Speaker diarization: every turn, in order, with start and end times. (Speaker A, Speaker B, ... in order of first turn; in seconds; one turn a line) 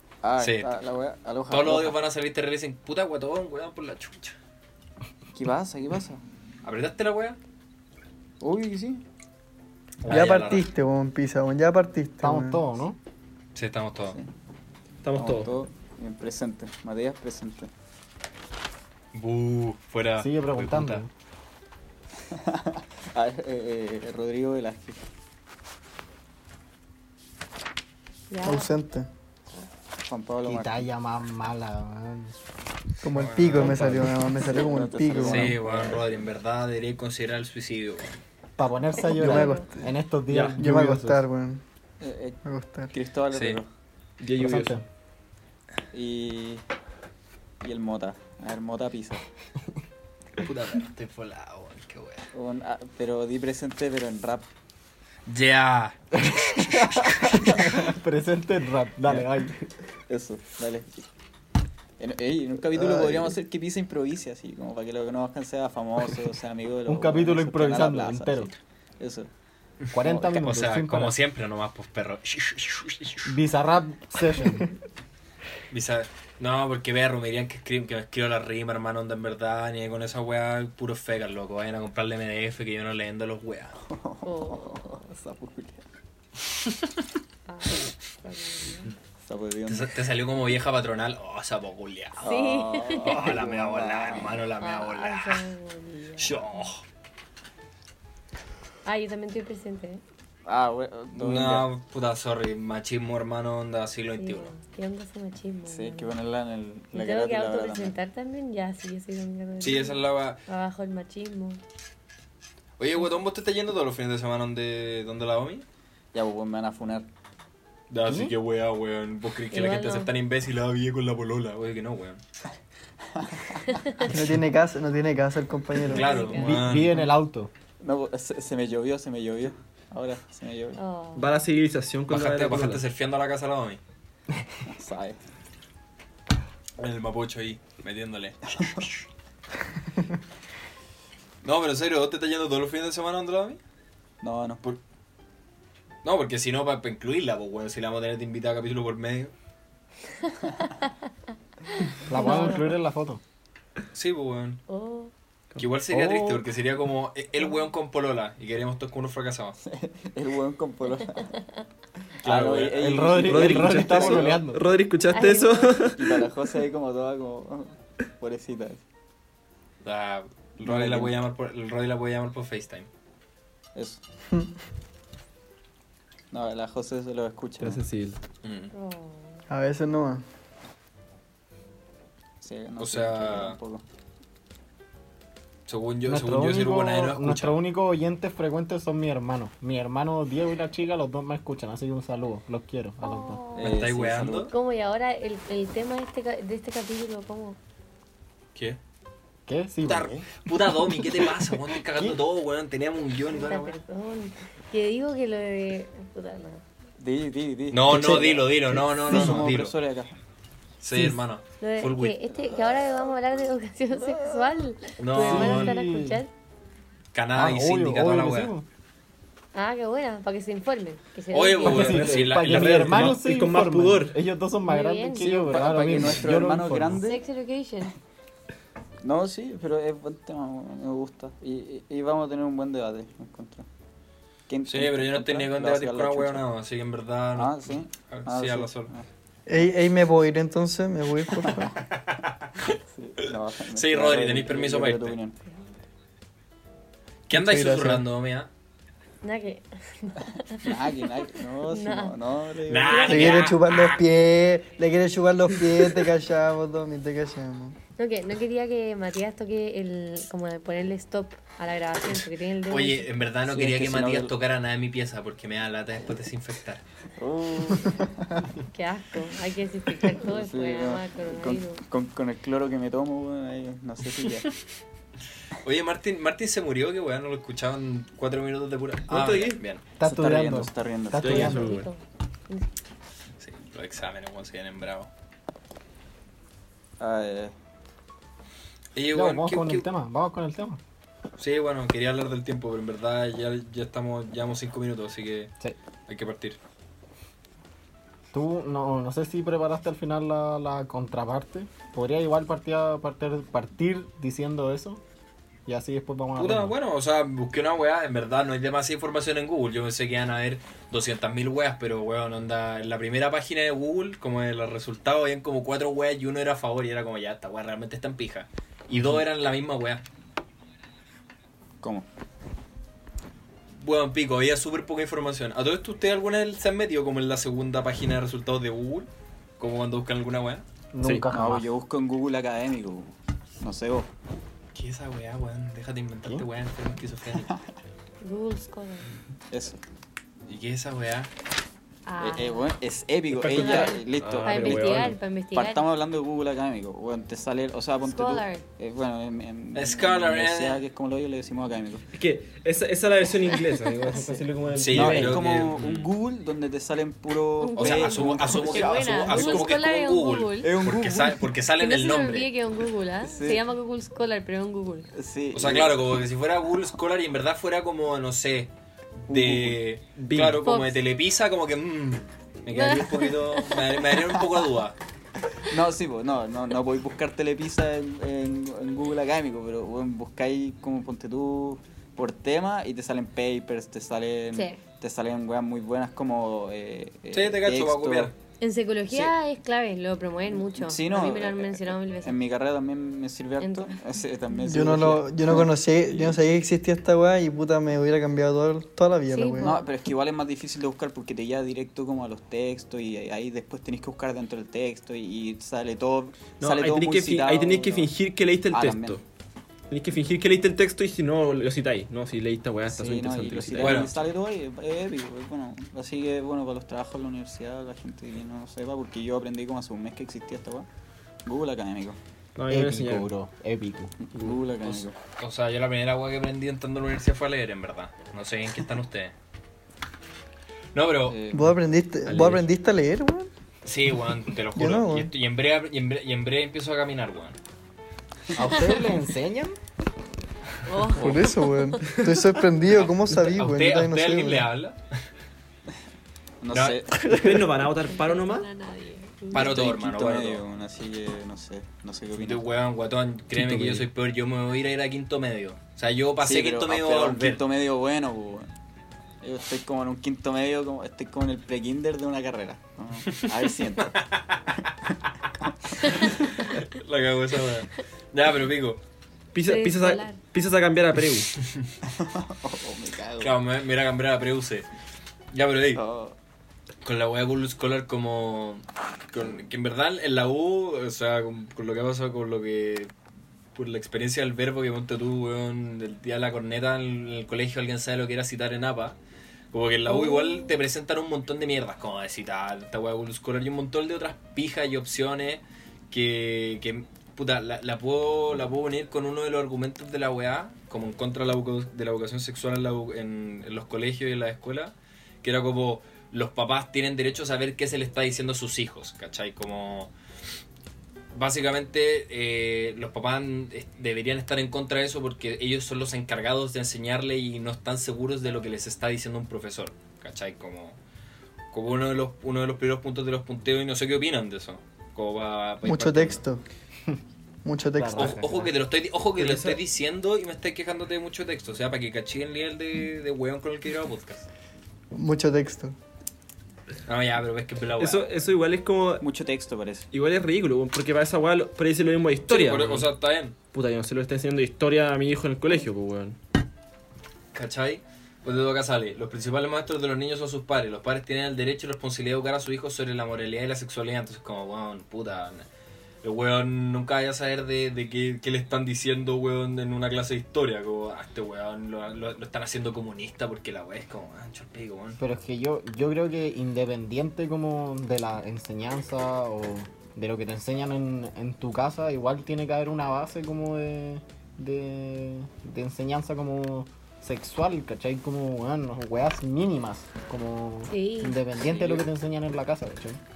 Speaker A: 0.2-2.0
Speaker B: 0.4-0.7
Speaker B: 1.5-4.4
Speaker A: 5.3-6.2
Speaker B: 6.6-7.4
Speaker A: 8.4-9.0
Speaker B: 10.0-10.7
Speaker C: 10.1-12.6
Speaker D: 12.2-13.0
Speaker B: 13.6-14.2
Speaker A: 14.0-14.3
Speaker E: 15.0-15.6
Speaker A: 15.1-17.7
Speaker B: 19.1-21.0
Speaker D: 20.2-21.1
Speaker A: 22.3-25.0
Speaker F: 28.3-28.7
Speaker C: 28.4-29.1
Speaker A: 30.0-30.9
Speaker D: 30.4-32.4
Speaker C: 33.0-35.6
Speaker B: 33.1-34.0
Speaker D: 33.6-34.1
Speaker A: 33.8-36.2
Speaker B: 35.2-38.1
Speaker D: 38.6-41.2
Speaker C: 39.1-39.9
Speaker F: 39.2-39.7
Speaker E: 40.3-40.6
Speaker C: 40.6-41.6
Speaker A: 42.0-42.4
Speaker C: 42.5-42.9
Speaker A: 42.9-43.7
Speaker B: 43.3-43.6
Speaker E: 44.2-44.8
Speaker D: 44.4-44.8
Speaker A: 45.9-46.6
Speaker A: 47.6-49.2
Speaker B: 50.4-52.3
Speaker A: 52.3-54.5
Speaker B: 55.3-57.4
Speaker D: 56.3-59.7
Speaker A: 60.1-60.9
Speaker A: 62.0-69.3
Speaker D: 62.7-63.4
Speaker D: 66.9-68.5
Speaker B: 69.8-73.3
Speaker D: 69.9-71.2
Speaker D: 73.2-74.7
Speaker B: 75.7-83.8
Speaker A: 83.9-85.8
Speaker F: 84.2-85.0
Speaker F: 87.5-88.9
Speaker A: 89.2-90.0
Speaker B: 89.7-92.2
Speaker A: 92.2-94.5
Speaker F: 92.2-93.2
Speaker B: 93.0-95.4
Speaker F: 94.6-96.7
Speaker B: 96.2-96.8
Speaker F: 98.8-100.0
Speaker A: 100.5-101.7
Speaker B: 101.1-104.5
Speaker F: 104.2-106.2
Speaker A: 105.7-108.0
Speaker F: 106.9-111.6
Speaker B: 109.6-110.4
Speaker B: 112.8-115.7
Speaker A: 116.1-117.1
Speaker B: 117.9-122.2
Speaker D: 118.1-118.3
Speaker F: 119.5-120.1
Speaker A: 123.1-123.6
Speaker F: 123.7-124.1
Speaker C: 124.0-126.2
Speaker F: 125.8-126.7
Speaker B: 125.9-127.1
Speaker A: 126.0-126.4
Speaker D: 126.3-127.5
Speaker A: 127.8-130.8
Speaker F: 130.8-131.3
Speaker E: 131.2-132.8
Speaker B: 132.1-133.8
Speaker A: 134.7-135.2
Speaker B: 136.8-138.9
Speaker B: 141.4-143.6
Speaker A: 144.2-144.6
Speaker B: 146.0-149.3
Speaker F: 150.6-150.9
Speaker F: 151.8-152.8
Speaker D: 152.1-153.2
Speaker B: 153.9-154.6
Speaker F: 154.7-155.1
Speaker E: 155.6-156.4
Speaker B: 155.6-159.6
Speaker A: 159.6-161.3
Speaker F: 161.3-161.7
Speaker B: 162.2-163.2
Speaker A: 162.2-164.4
Speaker D: 162.7-164.6
Speaker E: 163.3-166.2
Speaker B: 163.9-164.2
Speaker F: 165.1-165.8
Speaker A: 166.0-168.8
Speaker B: 169.8-172.9
Speaker A: 170.6-171.2
Speaker A: 173.8-174.0
Speaker A: 176.3-177.8
Speaker E: 177.6-178.2
Speaker B: 178.4-178.7
Speaker F: 178.7-179.4
Speaker C: 179.5-180.2
Speaker A: 182.4-183.8
Speaker B: 182.8-183.6
Speaker B: 185.7-187.6
Speaker D: 186.1-193.4
Speaker F: 193.0-193.7
Speaker A: 193.6-194.5
Speaker B: 193.6-194.5
Speaker F: 194.5-197.6
Speaker D: 199.5-200.3
Speaker B: 199.8-203.8
Speaker D: 200.9-202.2
Speaker F: 203.3-206.6
Speaker A: 207.0-210.2
Speaker B: 207.7-209.7
Speaker D: 207.9-209.4
Speaker B: 210.8-212.2
Speaker F: 211.6-216.3
Speaker A: 214.0-214.4
Speaker B: 215.0-215.8
Speaker D: 215.2-216.2
Speaker B: 217.1-218.5
Speaker D: 217.3-218.7
Speaker F: 219.5-222.0
Speaker B: 221.3-223.2
Speaker E: 221.6-224.2
Speaker D: 221.7-227.0
Speaker F: 224.7-225.3
Speaker A: 225.2-227.2
Speaker F: 227.0-227.9
Speaker A: 229.0-233.7
Speaker A: 234.5-236.4
Speaker B: 234.7-238.9
Speaker A: 237.3-239.1
Speaker C: 239.5-241.7
Speaker A: 241.4-241.7
Speaker B: 242.1-242.5
Speaker A: 242.9-245.4
Speaker B: 243.7-245.2
Speaker F: 245.5-245.8
Speaker B: 247.3-248.5
Speaker C: 247.3-248.0
Speaker F: 249.2-251.1
Speaker A: 250.6-253.3
Speaker F: 251.6-252.2
Speaker B: 252.7-254.0
Speaker F: 252.9-253.3
Speaker C: 253.1-257.8
Speaker F: 258.0-263.1
Speaker B: 262.7-266.8
Speaker A: 263.5-264.3
Speaker A: 267.2-268.1
Speaker F: 268.7-271.8
Speaker A: 270.2-274.5
Speaker B: 275.6-279.8
Speaker E: 279.1-279.6
Speaker D: 280.0-281.9
Speaker A: 280.0-281.6
Speaker E: 281.2-281.8
Speaker F: 281.3-282.7
Speaker B: 283.4-285.1
Speaker A: 287.0-287.5
Speaker B: 288.9-289.9
Speaker D: 289.1-290.8
Speaker B: 291.4-295.5
Speaker B: 296.1-296.6
Speaker D: 298.3-305.0
Speaker D: 305.7-306.8
Speaker B: 306.4-320.0
Speaker B: 323.8-329.1
Speaker B: 329.6-330.6
Speaker D: 330.9-331.7
Speaker A: 331.3-334.1
Speaker B: 334.8-337.5
Speaker F: 338.2-339.1
Speaker A: 339.5-339.8
Speaker B: 340.5-341.3
Speaker F: 342.1-342.6
Speaker A: 342.2-345.0
Speaker E: 343.3-345.2
Speaker F: 343.5-345.9
Speaker A: 345.5-352.1
Speaker F: 348.0-348.6
Speaker B: 349.7-350.8
Speaker E: 352.1-355.5
Speaker F: 353.5-353.8
Speaker B: 354.7-356.1
Speaker A: 354.9-359.8
Speaker F: 357.6-360.7
Speaker B: 357.8-362.5
Speaker A: 360.6-361.4
Speaker F: 361.8-365.1
Speaker A: 363.2-363.6
Speaker A: 365.1-366.2
Speaker B: 365.5-368.7
Speaker B: 369.3-375.0
Speaker E: 369.3-369.7
Speaker E: 370.2-370.6
Speaker F: 370.6-371.0
Speaker F: 372.7-374.5
Speaker A: 375.7-388.3
Speaker F: 384.5-384.8
Speaker B: 387.3-388.3
Speaker F: 388.6-392.4
Speaker A: 390.5-396.3
Speaker F: 393.6-394.0
Speaker C: 394.7-399.7
Speaker F: 399.3-399.9
Speaker A: 399.6-408.1
Speaker E: 406.6-409.2
Speaker A: 408.7-409.2
Speaker E: 409.9-414.1
Speaker A: 412.9-420.9
Speaker B: 413.8-414.1
Speaker A: 421.4-422.2
Speaker E: 422.6-423.3
Speaker D: 422.7-424.4
Speaker A: 424.2-425.2
Speaker B: 424.8-429.3
Speaker B: 430.9-431.4
Speaker A: 431.3-431.8
Speaker C: 431.5-433.5
Speaker E: 432.3-432.7
Speaker B: 433.8-437.6
Speaker C: 434.8-435.3
Speaker D: 438.5-439.8
Speaker F: 438.7-439.0
Speaker F: 440.9-442.2
Speaker C: 441.1-444.7
Speaker B: 442.9-445.0
Speaker A: 446.6-447.3
Speaker B: 446.7-447.0
Speaker E: 447.2-448.7
Speaker F: 448.1-449.8
Speaker B: 449.5-450.6
Speaker A: 449.5-452.6
Speaker B: 452.4-457.6
Speaker A: 456.4-458.7
Speaker A: 459.4-464.2
Speaker B: 466.1-469.0
Speaker E: 469.5-471.5
Speaker F: 469.6-470.4
Speaker B: 471.6-471.9
Speaker A: 472.1-473.5
Speaker B: 473.4-474.9
Speaker B: 475.5-476.0
Speaker A: 475.9-476.4
Speaker B: 477.0-483.1
Speaker B: 483.8-489.2
Speaker B: 489.7-510.1
Speaker F: 490.1-490.7
Speaker B: 511.3-521.0
Speaker B: 521.7-526.4
Speaker C: 525.8-526.6
Speaker C: 527.6-528.4
Speaker D: 528.0-528.7
Speaker B: 528.1-534.5
Speaker E: 529.4-529.8
Speaker C: 535.1-536.0
Speaker B: 537.1-538.4
Speaker E: 538.0-539.2
Speaker A: 539.2-540.1
Speaker E: 540.1-543.1
Speaker B: 542.5-543.6
Speaker E: 543.7-546.4
Speaker B: 547.5-555.7
Speaker B: 556.2-565.2
Speaker D: 565.2-583.2
Speaker F: 580.9-581.4
Speaker A: 581.7-582.0